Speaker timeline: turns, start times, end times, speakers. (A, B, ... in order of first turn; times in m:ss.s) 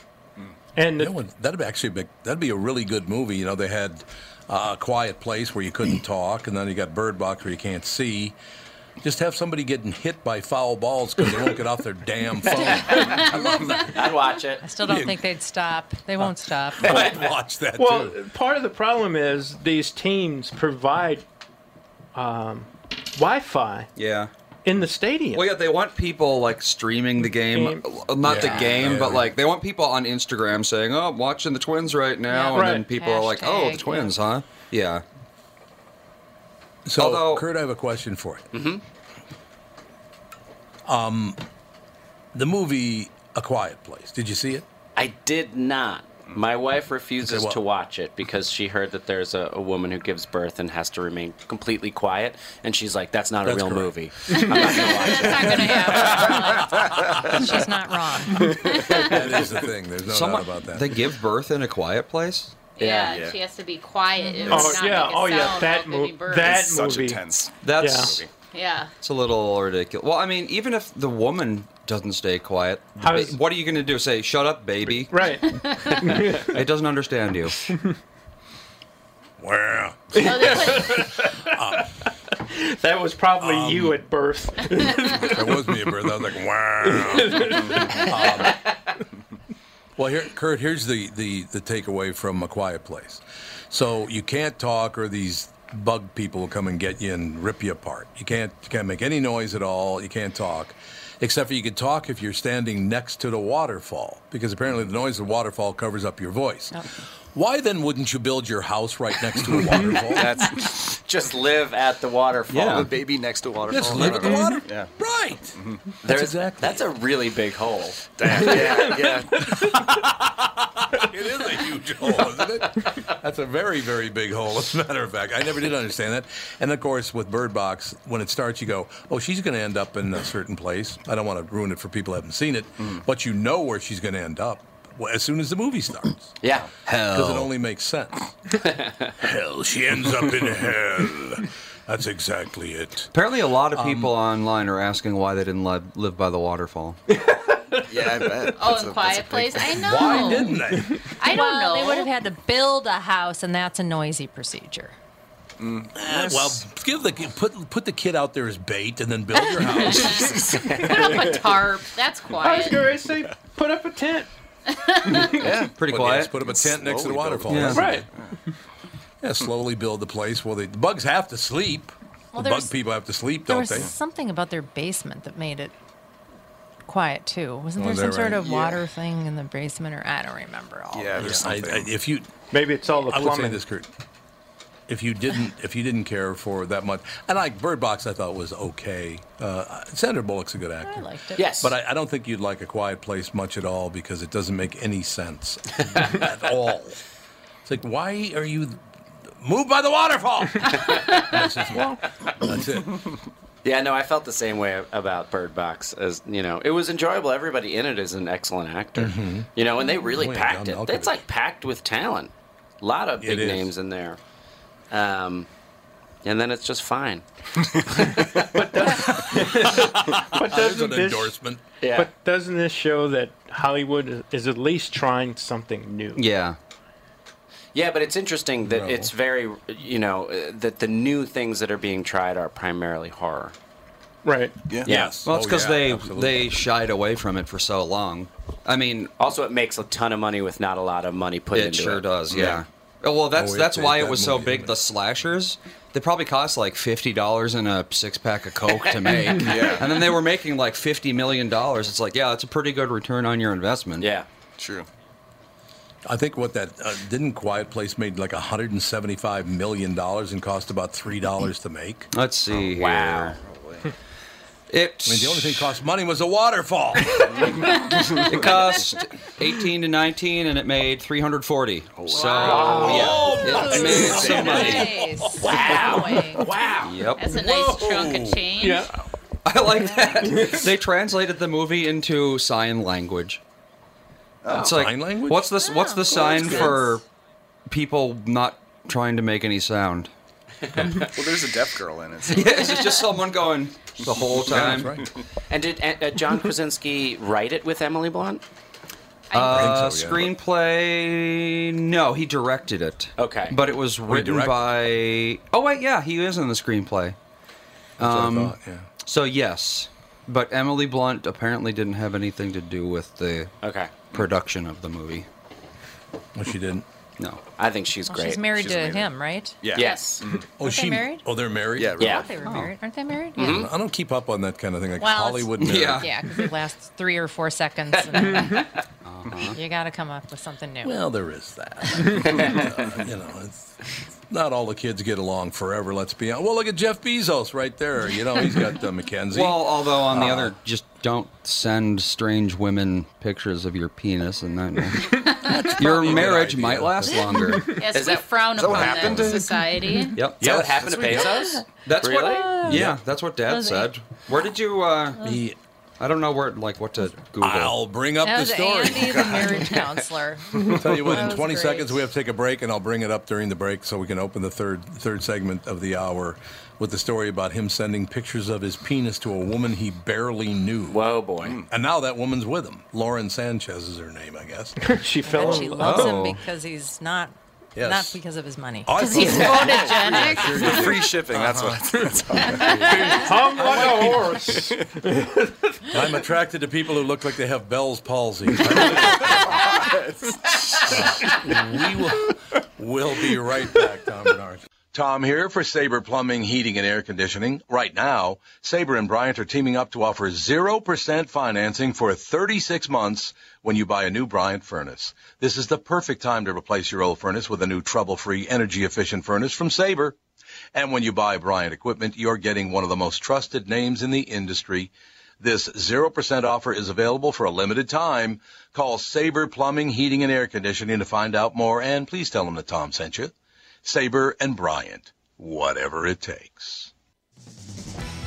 0:00.7-0:01.1 A
0:01.0-0:08.4 B
0:09.0-0:14.1 B
0:12.5-0:14.6 C
0:12.7-0:13.2 D
0:14.6-0:17.1 D
0:14.8-0:15.2 B
0:16.2-0:18.2 B
0:16.8-0:17.2 C
0:17.8-0:21.2 A
0:22.1-0:23.9 A
0:24.0-0:24.3 E
0:24.6-0:25.4 A
0:25.3-0:35.0 E
0:27.4-0:27.9 A
0:28.2-0:29.3 B
0:28.4-0:29.0 C
0:32.3-0:34.1 D
0:32.5-0:32.9 A
0:36.8-0:38.5 B
0:37.0-0:37.5 E
0:38.5-0:38.8 C
0:40.8-0:41.4 B
0:42.3-0:44.6 B
0:45.0-0:56.3 C
0:47.2-0:47.6 B
0:53.4-0:56.8 B
0:54.4-0:56.8 F
0:56.5-0:57.4 G
0:57.2-0:58.5 D
0:58.3-0:58.8 A
0:58.3-0:58.8 G
0:58.7-0:59.0 F
0:58.9-1:01.0 B
1:00.1-1:02.6 E
1:02.8-1:06.7 F
1:02.8-1:03.2 C
1:03.1-1:03.4 G
1:04.2-1:05.0 D
1:04.4-1:07.2 A
1:06.4-1:08.3 G
1:07.6-1:08.2 E
1:07.8-1:08.2 A
1:08.5-1:08.9 F
1:09.0-1:17.6 E
1:13.0-1:13.4 A
1:14.9-1:16.5 A
1:19.4-1:21.9 B
1:20.1-1:26.0 A
1:20.2-1:21.1 F
1:23.4-1:24.0 B
1:25.2-1:28.6 B
1:26.8-1:28.2 A
1:30.0-1:50.3 B
1:49.6-1:50.9 G
1:50.3-1:52.9 C
1:52.5-1:52.9 E
1:52.7-1:54.9 G
1:53.7-1:56.8 B
1:53.8-1:54.5 E
1:55.5-1:55.8 G
1:56.0-1:58.9 C
1:58.2-1:59.5 G
1:58.5-2:16.4 B
2:16.4-2:16.7 C
2:16.8-2:17.5 E
2:17.1-2:18.6 B
2:18.6-2:19.1 C
2:19.2-2:23.1 B
2:23.1-2:27.0 E
2:23.7-2:24.1 B
2:27.1-2:27.8 A
2:27.9-2:30.1 G
2:28.5-2:32.2 F
2:29.7-2:31.1 B
2:31.2-2:34.9 D
2:35.6-2:36.6 G
2:35.9-2:40.5 B
2:39.4-2:39.7 D
2:39.8-2:42.9 F
2:40.2-2:41.4 G
2:40.6-2:41.1 C
2:42.4-2:44.3 A
2:44.7-2:45.2 F
2:45.2-2:45.8 G
2:45.7-2:46.4 E
2:45.8-2:48.1 B
2:46.3-2:48.3 G
2:47.5-2:47.9 E
2:47.7-2:48.0 A
2:49.2-2:53.9 B
2:52.3-2:52.7 D
2:53.4-2:55.7 D
2:56.8-3:01.4 D
2:57.7-2:58.6 B
2:58.4-2:58.8 G
3:00.9-3:01.9 G
3:01.1-3:02.3 B
3:02.5-3:03.6 A
3:03.1-3:03.9 B
3:04.9-3:17.0 B
3:10.8-3:11.4 D
3:11.4-3:11.7 C
3:17.6-3:18.8 B
3:19.4-3:23.1 B
3:20.7-3:21.4 C
3:21.7-3:22.0 A
3:23.6-3:34.2 C
3:29.0-3:29.5 B
3:30.1-3:31.2 B
3:33.2-3:33.7 B
3:34.9-3:35.5 C
3:36.2-3:37.2 C
3:37.8-3:38.5 C
3:38.4-3:41.4 A
3:38.9-3:41.6 B
3:41.8-3:42.1 C
3:41.9-3:46.2 A
3:46.2-3:46.6 E
3:47.7-3:53.5 C
3:48.6-3:49.1 B
3:54.2-3:54.5 A
3:54.8-3:56.6 B
3:54.8-3:55.2 C
3:55.2-3:59.1 E
3:59.2-4:02.1 C
4:01.5-4:14.0 E
4:02.3-4:02.6 G
4:03.3-4:04.8 B
4:08.9-4:09.8 C
4:09.4-4:10.0 G
4:14.0-4:14.3 C
4:14.6-4:14.9 G
4:16.0-4:22.1 B
4:22.1-4:23.3 E
4:22.5-4:23.4 C
4:23.4-4:23.9 G
4:24.7-4:25.7 E
4:25.0-4:28.5 B
4:28.1-4:28.5 G
4:28.2-4:34.9 E
4:32.0-4:33.0 G
4:32.1-4:32.8 F
4:32.4-4:33.1 A
4:32.7-4:33.3 C
4:32.8-4:36.7 B
4:33.6-4:36.5 D
4:35.5-4:36.9 C
4:36.8-4:37.4 E
4:37.1-4:38.9 F
4:37.4-4:38.5 B
4:38.6-4:38.9 A
4:39.4-4:43.4 E
4:40.2-4:40.5 A
4:44.4-4:44.8 G
4:44.5-4:47.0 E
4:44.5-4:46.9 B
4:45.7-4:46.3 D
4:47.7-4:50.1 E
4:50.7-4:51.0 C
4:50.7-4:51.1 B
4:51.0-4:52.8 G
4:52.3-4:55.0 E
4:54.0-4:55.1 G
4:54.4-4:55.1 B
4:55.5-4:58.4 C
4:59.3-4:59.8 F
4:59.3-5:07.2 E
4:59.5-5:00.3 B
5:03.2-5:03.6 C
5:04.0-5:04.8 B
5:08.0-5:08.9 B
5:08.0-5:13.5 E
5:13.6-5:13.9 C
5:14.1-5:15.3 E
5:16.3-5:16.8 B
5:17.6-5:18.6 C
5:18.1-5:19.7 D
5:18.4-5:20.5 G
5:19.7-5:20.2 C
5:19.8-5:20.1 F
5:20.6-5:21.2 D
5:20.6-5:22.1 B
5:21.8-5:22.3 G
5:22.0-5:22.3 C
5:22.0-5:23.6 D
5:22.4-5:22.7 E
5:23.4-5:23.7 C
5:23.4-5:26.1 B
5:25.0-5:25.5 D
5:25.6-5:26.1 E
5:26.0-5:28.6 D
5:27.9-5:28.8 C
5:28.2-5:28.6 A
5:29.0-5:29.6 E
5:29.5-5:31.0 D
5:30.8-5:40.5 B
5:39.3-5:47.8 E
5:45.4-5:47.3 B
5:47.6-5:50.2 F
5:47.9-5:48.2 C
5:48.5-5:49.5 G
5:48.8-5:49.4 B
5:50.1-5:50.7 E
5:50.3-5:51.3 B
5:50.4-5:52.5 C
5:51.2-5:51.6 D
5:51.8-5:55.2 E
5:52.5-5:52.9 D
5:52.7-5:53.0 B
5:55.2-5:55.6 B
5:56.0-5:57.8 E
5:57.4-5:59.8 B
5:58.2-6:02.1 D
5:59.5-6:00.1 C
6:00.6-6:11.0 B
6:10.9-6:11.6 C
6:11.4-6:11.7 G
6:11.7-6:14.9 B
6:14.8-6:16.1 A
6:15.3-6:19.0 D
6:15.4-6:16.1 B
6:15.6-6:16.4 E
6:17.8-6:18.2 B
6:18.8-6:24.4 B
6:18.9-6:21.1 F
6:19.3-6:24.9 G
6:22.5-6:23.2 F
6:23.1-6:25.9 A
6:25.9-6:29.9 B
6:29.1-6:30.9 G
6:30.9-6:50.2 B
6:50.7-7:03.3 B
7:03.8-7:06.9 B